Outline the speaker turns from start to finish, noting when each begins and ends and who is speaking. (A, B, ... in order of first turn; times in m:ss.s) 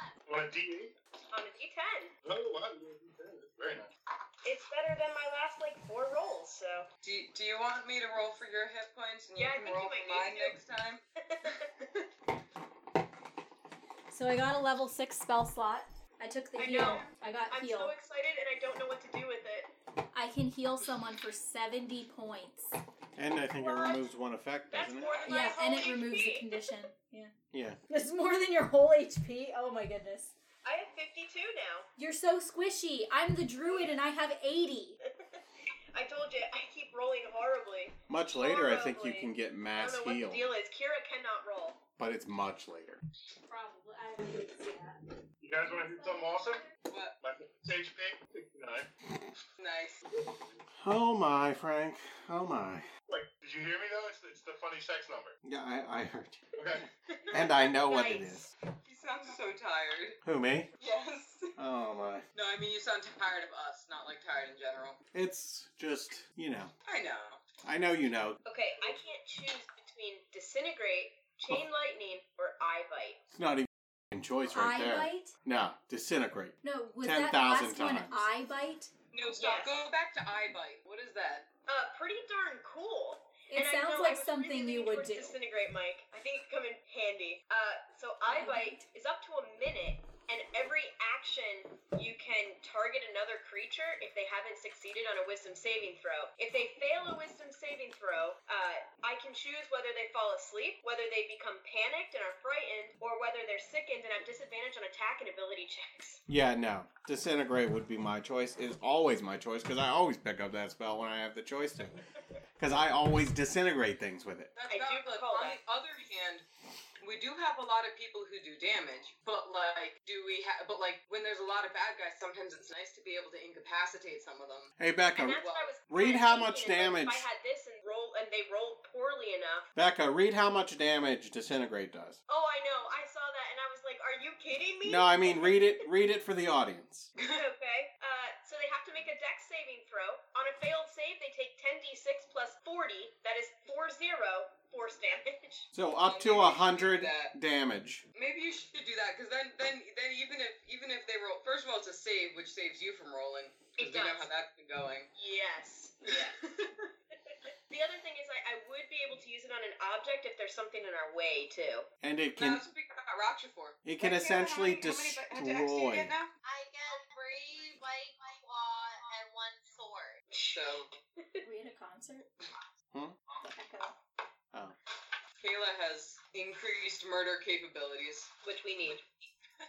0:00.3-0:00.9 A
0:01.3-0:02.1 B
0:02.2-0:03.9 A
0:04.4-0:06.9 B
0:07.0-0:11.8 C
0:09.4-0:10.6 B
0:11.2-0:11.8 B
0:14.1-0:17.9 D
0:16.6-0:19.7 B
0:20.1-0:22.8 D
0:23.2-0:25.2 E
0:23.6-0:24.0 B
0:24.7-0:26.7 B
0:25.1-0:25.5 C
0:25.2-0:27.3 D
0:27.5-0:27.8 E
0:27.9-0:30.3 D
0:30.6-0:31.9 B
0:32.0-0:35.0 D
0:35.9-0:41.8 B
0:38.1-0:40.5 E
0:42.0-0:43.0 E
0:43.5-0:45.0 D
0:45.4-0:46.7 A
0:45.6-0:46.7 D
0:46.9-0:47.1 C
0:47.2-0:48.9 A
0:49.6-0:50.0 C
0:50.8-0:52.9 E
0:53.1-0:55.3 A
0:55.4-0:56.4 E
0:56.6-0:56.9 A
0:57.1-0:58.5 B
0:57.3-0:58.4 E
0:58.8-1:00.2 C
1:00.2-1:00.7 E
1:00.8-1:01.5 C
1:01.6-1:02.2 E
1:02.3-1:05.0 C
1:05.1-1:06.7 E
1:06.8-1:07.4 C
1:07.6-1:08.4 E
1:08.4-1:13.2 B
1:13.3-1:18.2 E
1:14.5-1:15.4 D
1:16.6-1:18.9 D
1:19.1-1:21.5 C
1:19.4-1:19.8 B
1:21.7-1:46.2 B
1:23.5-1:25.4 D
1:28.3-1:28.8 D
1:46.3-1:52.0 E
1:52.6-1:54.5 E
1:54.5-1:56.4 C
1:54.7-1:55.6 B
1:57.0-2:04.7 C
2:04.8-2:07.3 E
2:05.2-2:09.7 B
2:05.4-2:05.7 C
2:09.7-2:12.2 E
2:12.3-2:15.8 B
2:14.8-2:17.1 E
2:17.2-2:25.6 B
2:25.7-2:28.0 E
2:26.0-2:27.3 C
2:28.1-2:35.1 C
2:33.8-2:34.3 B
2:35.2-2:36.5 B
2:36.4-2:36.8 C
2:37.3-2:41.9 B
2:42.0-2:42.6 E
2:42.4-2:46.3 C
2:43.8-2:46.1 E
2:46.4-2:50.2 F
2:50.3-2:51.4 B
2:50.5-2:50.9 C
2:51.4-2:52.3 D
2:52.9-2:53.2 E
2:53.4-2:53.9 D
2:55.4-2:58.3 C
2:58.4-2:59.0 B